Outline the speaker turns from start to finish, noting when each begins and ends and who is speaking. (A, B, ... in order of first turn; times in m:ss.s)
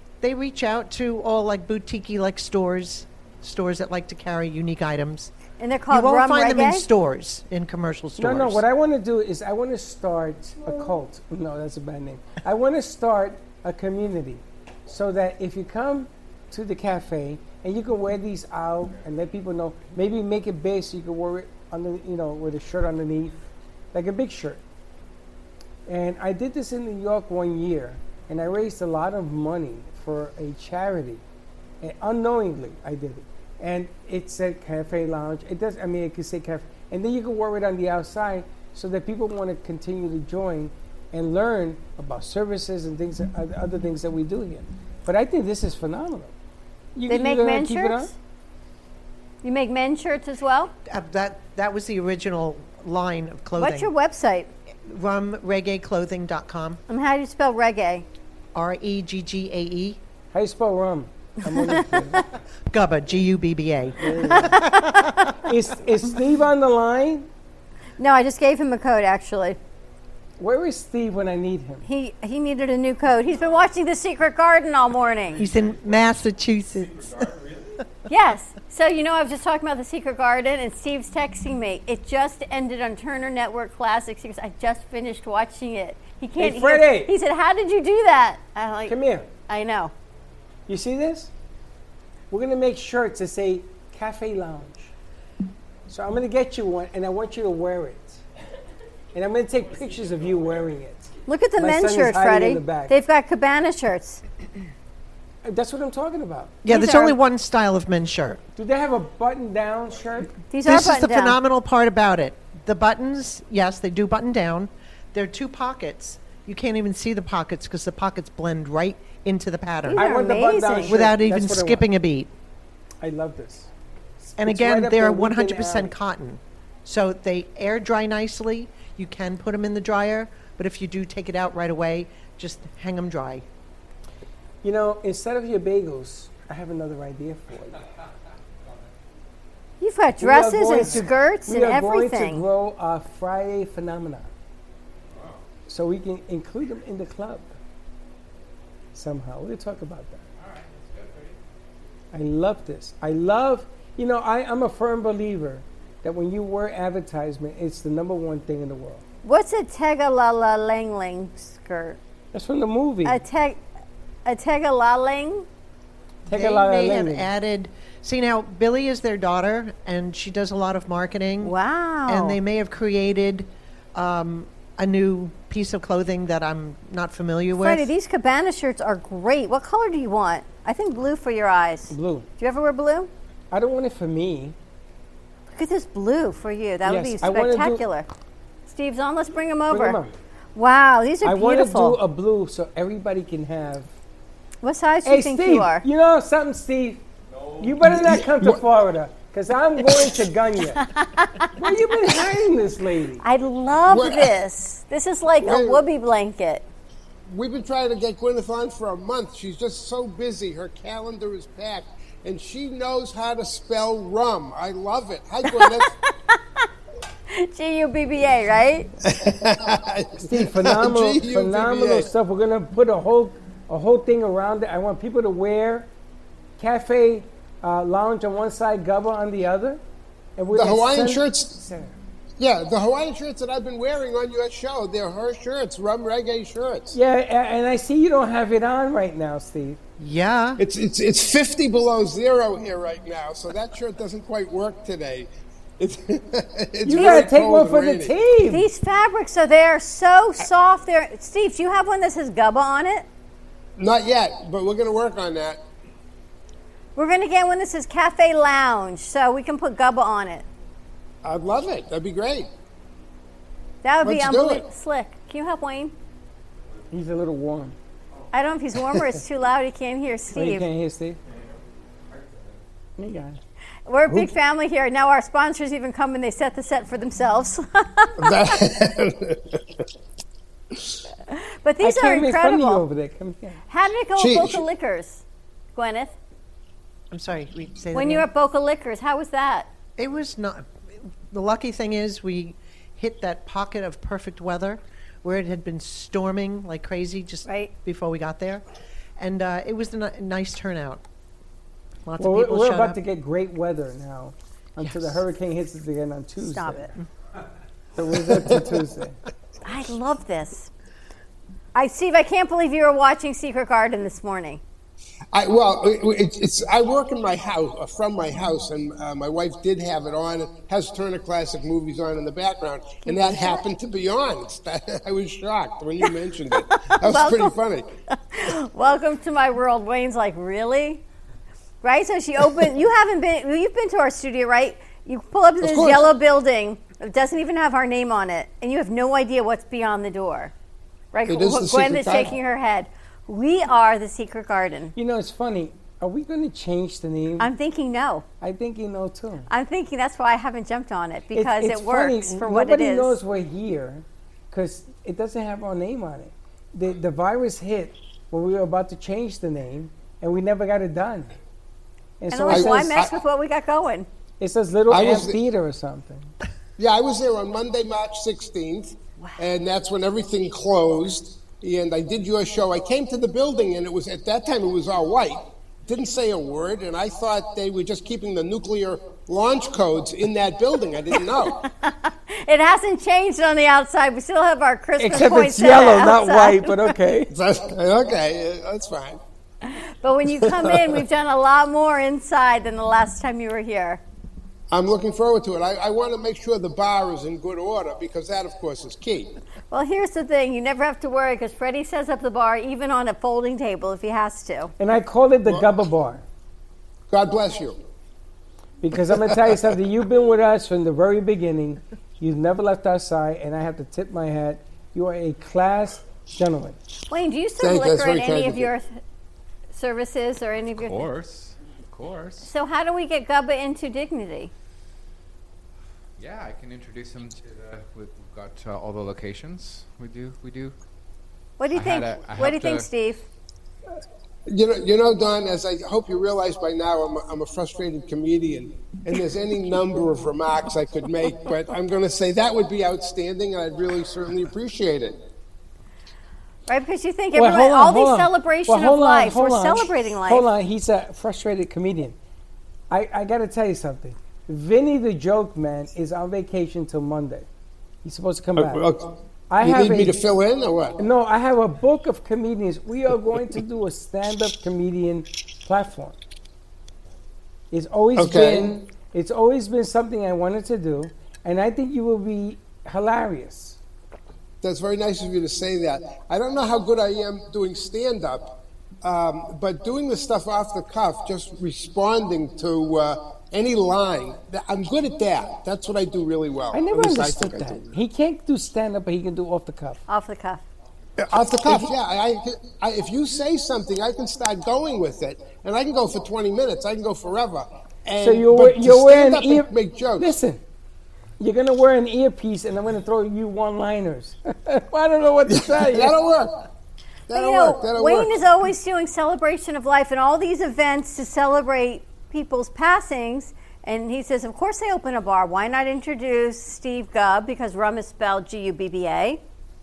0:00.2-0:05.3 A
0:05.6-0:06.9 B
0:05.9-0:08.6 A
0:08.2-0:23.4 C
0:23.9-0:24.6 C
0:25.9-0:31.2 C
0:31.8-0:46.3 C
0:47.0-0:48.1 C
0:47.1-0:48.1 B
0:49.4-0:50.7 B
0:50.9-0:53.9 A
0:53.6-0:54.5 B
0:54.9-0:56.8 A
0:56.9-0:58.1 B
0:58.5-1:00.0 A
1:00.3-1:02.3 C
1:02.7-1:05.3 A
1:04.0-1:04.7 C
1:04.3-1:05.3 B
1:05.4-1:07.3 C
1:08.0-1:09.6 B
1:10.4-1:11.8 C
1:11.8-1:15.5 B
1:15.4-1:17.3 A
1:18.1-1:29.9 B
1:26.4-1:27.1 C
1:28.9-1:29.3 C
1:30.7-1:31.3 C
1:32.3-1:34.9 C
1:35.9-1:38.2 C
1:39.1-1:42.9 C
1:41.3-1:44.2 B
1:45.4-1:46.9 C
1:46.6-1:48.4 A
1:46.7-1:47.2 B
1:48.5-1:50.4 C
1:50.5-1:51.4 B
1:50.6-2:00.1 A
1:59.8-2:01.0 B
2:00.0-2:01.8 C
2:00.9-2:02.3 A
2:03.0-2:05.9 C
2:04.4-2:13.4 A
2:14.6-2:17.8 C
2:19.8-2:22.4 B
2:20.2-2:24.3 C
2:25.7-2:27.6 C
2:28.9-2:30.3 C
2:30.6-2:31.3 D
2:32.1-2:39.0 C
2:39.2-2:42.0 B
2:42.3-2:43.2 C
2:43.0-2:43.6 B
2:44.3-2:45.5 B
2:46.3-2:47.3 C
2:46.3-2:51.6 A
2:51.4-2:52.4 B
2:52.1-2:57.9 A
2:57.6-3:03.1 B
3:01.9-3:02.3 C
3:03.5-3:04.6 C
3:05.5-3:08.1 B
3:06.8-3:07.8 C
3:08.7-3:10.0 B
3:09.7-3:10.2 C
3:10.6-3:12.0 B
3:11.2-3:13.9 C
3:14.6-3:15.8 B
3:15.0-3:17.0 C
3:17.6-3:20.8 C
3:17.8-3:18.6 E
3:20.8-3:21.5 B
3:21.6-3:23.2 C
3:23.2-3:26.7 B
3:23.9-3:24.3 E
3:25.4-3:25.9 E
3:27.3-3:35.9 E
3:35.4-3:36.4 B
3:37.3-3:38.9 B
3:39.0-3:42.1 E
3:40.2-3:45.9 C
3:46.6-3:49.8 C
3:50.4-3:52.0 C
3:50.5-3:51.5 E
3:52.4-3:57.0 E
3:56.9-3:59.8 C
4:00.0-4:00.6 A
4:00.6-4:05.3 E
4:05.8-4:08.2 E
4:06.8-4:08.7 C
4:07.0-4:07.3 B
4:08.5-4:13.1 B
4:13.8-4:15.6 E
4:17.0-4:20.5 B
4:21.2-4:22.5 E
4:23.8-4:25.9 B
4:24.0-4:24.6 E
4:26.9-4:27.8 C
4:28.3-4:30.7 B
4:30.3-4:31.2 C
4:33.0-4:33.4 C
4:33.9-4:38.5 B
4:38.2-4:39.6 E
4:41.3-4:42.8 B
4:41.8-4:43.6 C
4:43.7-4:45.2 B
4:44.2-4:44.6 E
4:45.8-4:46.1 B
4:47.1-4:48.3 A
4:47.9-4:49.7 B
4:50.0-4:50.7 A
4:51.3-4:58.6 A
4:57.4-4:57.7 B
4:59.2-5:01.0 A
5:02.0-5:03.0 A
5:02.2-5:06.9 C
5:06.4-5:06.9 B
5:08.0-5:09.2 C
5:08.3-5:08.8 E
5:09.6-5:10.7 B
5:11.8-5:14.6 B
5:15.3-5:27.9 E
5:23.0-5:23.6 B
5:26.0-5:27.6 B
5:28.2-5:31.0 B
5:31.8-5:40.5 B
5:35.6-5:36.1 E
5:41.1-5:44.9 B
5:41.3-5:42.3 E
5:45.0-5:47.5 C
5:47.4-5:48.2 B
5:48.4-5:49.5 C
5:49.5-5:53.2 B
5:51.3-6:01.3 C
6:02.2-6:03.0 C
6:02.3-6:04.1 B
6:02.5-6:03.1 E
6:04.4-6:06.3 C
6:04.9-6:05.4 E
6:06.8-6:21.6 E
6:21.4-6:27.0 B
6:25.0-6:27.3 C
6:27.3-6:29.2 E
6:29.7-6:34.0 B
6:30.3-6:31.0 E
6:34.7-6:39.3 E
6:39.7-6:44.7 B
6:44.8-6:46.2 C
6:45.4-6:45.8 E
6:47.1-6:47.8 E
6:48.8-6:56.8 C
6:57.1-6:58.9 B
6:57.6-6:58.7 E
6:59.7-7:01.1 B
7:00.8-7:02.5 D
7:02.4-7:04.5 B
7:06.2-7:10.8 D
7:11.6-7:13.2 B
7:11.7-7:12.9 D
7:14.5-7:25.2 E
7:26.7-7:30.5 B
7:27.3-7:32.2 C
7:32.9-7:37.5 C
7:38.0-7:38.9 C
7:38.6-7:41.0 E
7:39.5-7:40.2 C
7:41.0-7:46.2 C
7:47.7-7:53.8 C
7:48.2-7:48.7 E
7:54.6-8:08.0 E
8:06.7-8:10.0 C
8:10.1-8:10.6 B
8:11.2-8:20.3 E
8:11.7-8:11.9 C
8:18.2-8:20.6 C
8:21.4-8:26.2 C
8:25.5-8:26.6 E
8:27.3-8:28.4 E
8:27.3-8:39.4 B